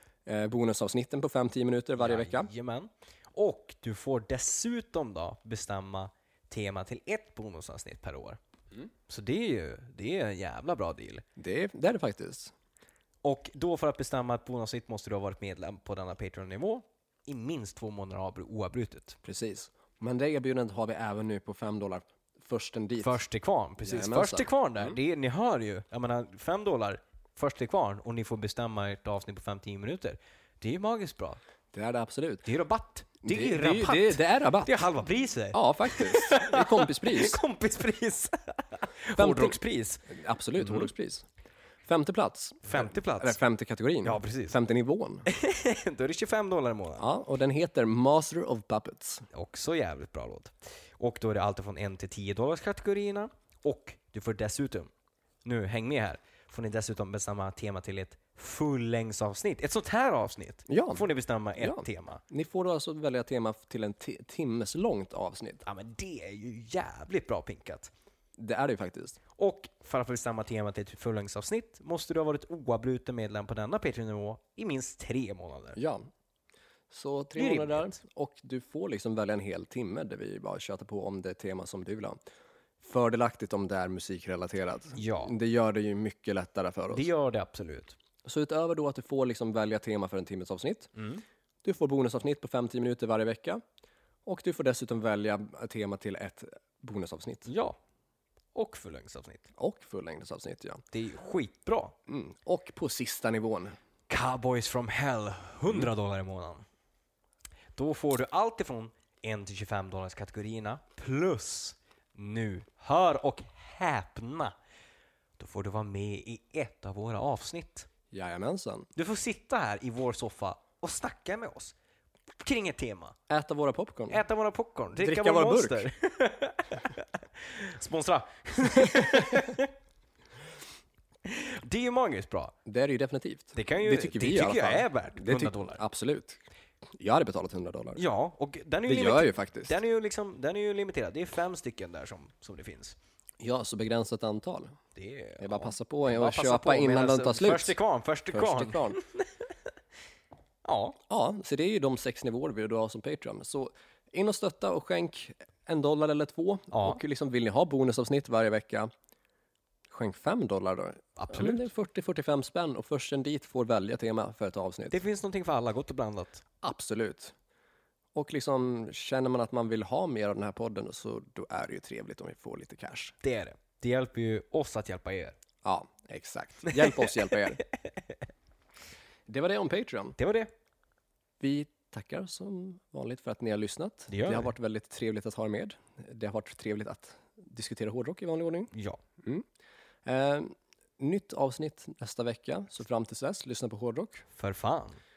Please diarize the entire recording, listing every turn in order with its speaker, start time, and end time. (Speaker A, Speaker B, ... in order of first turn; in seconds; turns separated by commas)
Speaker A: 0.2-2.5, Speaker B: 2.0-8.4, Speaker B: 9.1-11.2, Speaker A: 11.4-12.5, Speaker B: 13.2-19.2, Speaker A: 19.2-23.2, Speaker B: 23.0-31.4, Speaker A: 23.8-25.0, Speaker A: 31.7-32.4, Speaker B: 32.4-40.1, Speaker A: 33.2-34.7, Speaker A: 35.5-37.4, Speaker A: 39.2-41.2, Speaker B: 40.6-40.9, Speaker A: 41.9-45.2, Speaker B: 42.6-43.4, Speaker B: 44.0-44.6, Speaker B: 45.3-47.0, Speaker A: 47.0-49.3, Speaker B: 49.3-54.9, Speaker B: 55.4-62.2, Speaker A: 60.7-61.0, Speaker A: 61.6-65.6, Speaker B: 65.6-67.9, Speaker A: 68.4-69.2, Speaker B: 69.4-75.8, Speaker A: 75.8-76.1, Speaker A: 76.9-82.2, Speaker B: 77.3-78.0, Speaker A: 82.8-87.1, Speaker B: 84.9-85.3, Speaker B: 86.9-88.0, Speaker A: 88.2-90.9, Speaker B: 91.0-91.2, Speaker A: 91.6-93.6, Speaker A: 94.2-97.5, Speaker B: 97.5-97.8, Speaker B: 98.5-99.5, Speaker A: 99.6-100.8, Speaker B: 100.9-102.0, Speaker A: 102.1-103.8, Speaker B: 104.1-106.6, Speaker B: 107.8-114.5, Speaker B: 115.4-117.9, Speaker A: 118.1-118.9, Speaker B: 118.9-121.7, Speaker B: 122.4-123.2, Speaker A: 123.3-124.2, Speaker B: 124.1-129.7, Speaker A: 125.0-125.9, Speaker B: 131.2-132.5, Speaker A: 132.6-136.4, Speaker B: 133.6-135.8, Speaker A: 137.0-138.0, Speaker B: 137.9-142.9, Speaker A: 138.9-139.8, Speaker A: 143.4-144.7, Speaker B: 144.9-149.5, Speaker A: 145.4-147.8, Speaker A: 148.3-149.0, Speaker B: 150.6-151.0, Speaker A: 151.1-158.9, Speaker B: 156.7-157.0, Speaker A: 159.9-165.0, Speaker B: 161.2-161.6, Speaker B: 164.9-166.4, Speaker A: 166.6-167.3, Speaker A: 168.1-173.1, Speaker B: 173.2-175.3, Speaker A: 175.6-177.6, Speaker B: 176.7-177.3, Speaker A: 179.3-180.2, Speaker B: 180.2-180.5, Speaker A: 181.4-188.7, Speaker B: 184.1-184.5, Speaker B: 188.7-189.0, Speaker A: 190.0-194.2, Speaker B: 194.4-195.0